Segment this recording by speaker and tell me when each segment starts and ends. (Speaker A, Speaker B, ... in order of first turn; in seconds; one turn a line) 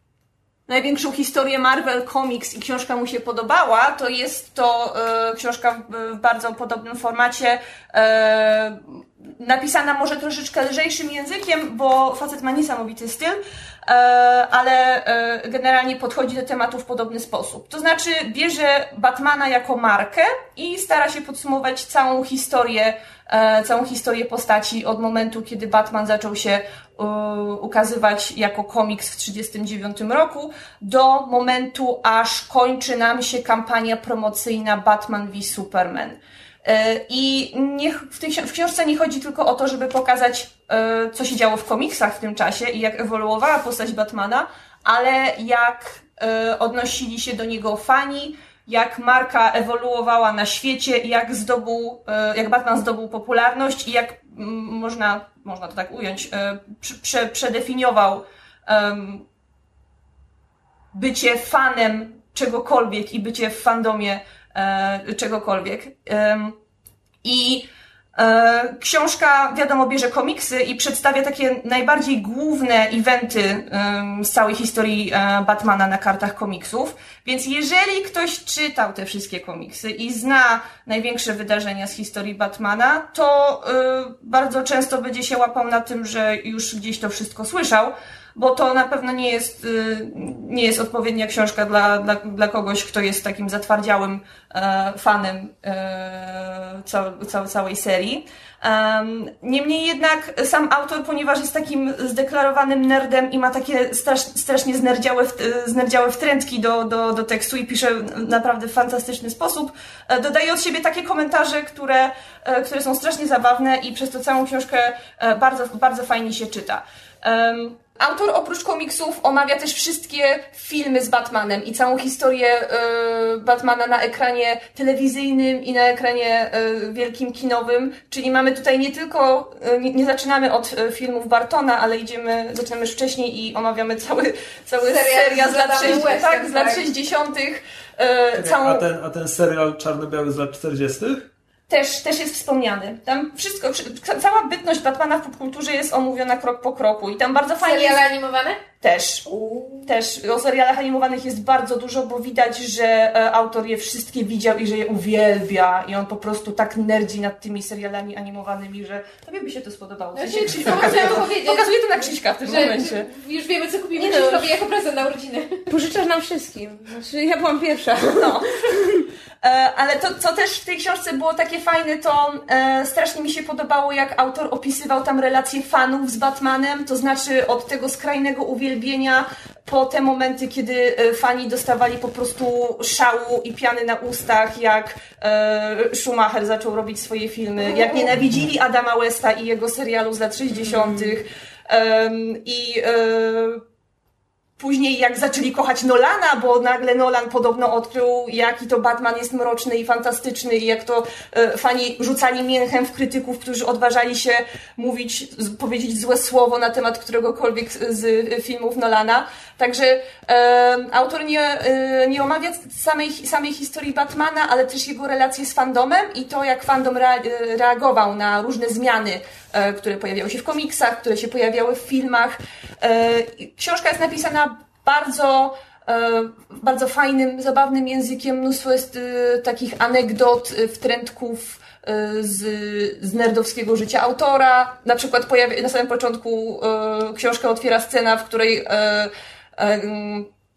Speaker A: 0.7-59.2
Speaker A: 60.9-66.6
Speaker A: 67.2-138.9
Speaker B: 134.8-136.9
Speaker C: 138.3-141.3
Speaker A: 141.7-148.0
Speaker B: 147.6-148.6
Speaker A: 148.8-149.2
Speaker B: 149.3-149.8
Speaker A: 149.8-163.1
Speaker B: 160.1-165.6
Speaker D: 164.0-164.5
Speaker D: 165.7-169.0
Speaker A: 168.0-193.6
Speaker D: 190.7-191.0
Speaker A: 194.6-240.3